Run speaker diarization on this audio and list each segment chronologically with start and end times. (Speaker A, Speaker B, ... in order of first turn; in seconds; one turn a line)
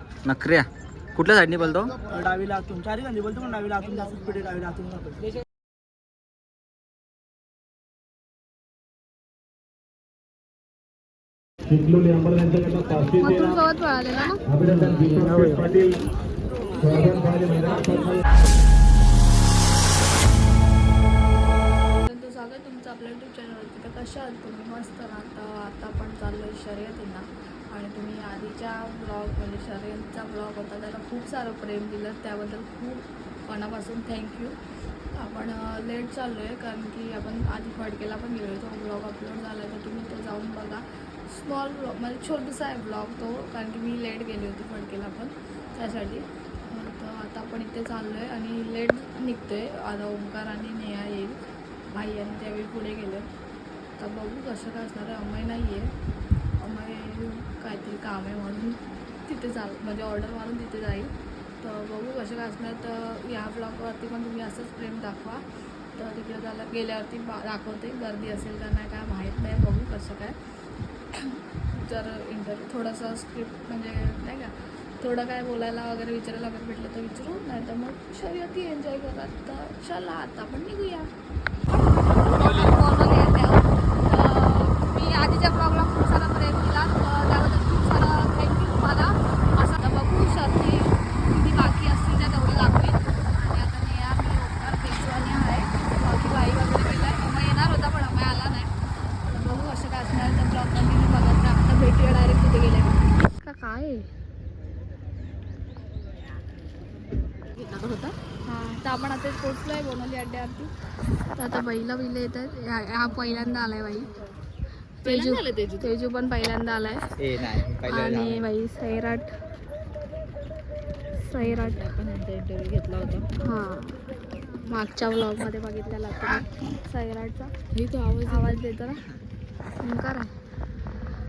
Speaker A: 0.2-1.9
Speaker B: 2.1-5.2
Speaker C: 11.7-13.6
Speaker D: 13.2-14.4
Speaker C: 14.5-16.0
Speaker C: 16.8-18.2
Speaker D: 21.9-34.5
Speaker D: 35.2-51.4
Speaker D: 51.9-53.3
Speaker D: 54.0-55.9
Speaker D: 56.6-65.4
Speaker D: 66.0-70.4
Speaker D: 71.1-81.1
Speaker D: 82.2-98.7
Speaker D: 99.3-104.1
Speaker E: 107.6-108.2
Speaker D: 108.5-110.7
Speaker D: 111.4-114.1
Speaker D: 115.0-117.1
Speaker E: 115.1-115.8
Speaker D: 117.8-119.3
Speaker A: 118.0-118.4
Speaker D: 121.2-121.9
Speaker E: 121.5-123.3
Speaker D: 123.4-127.5
Speaker E: 127.7-128.6
Speaker D: 128.3-129.0
Speaker D: 129.8-130.3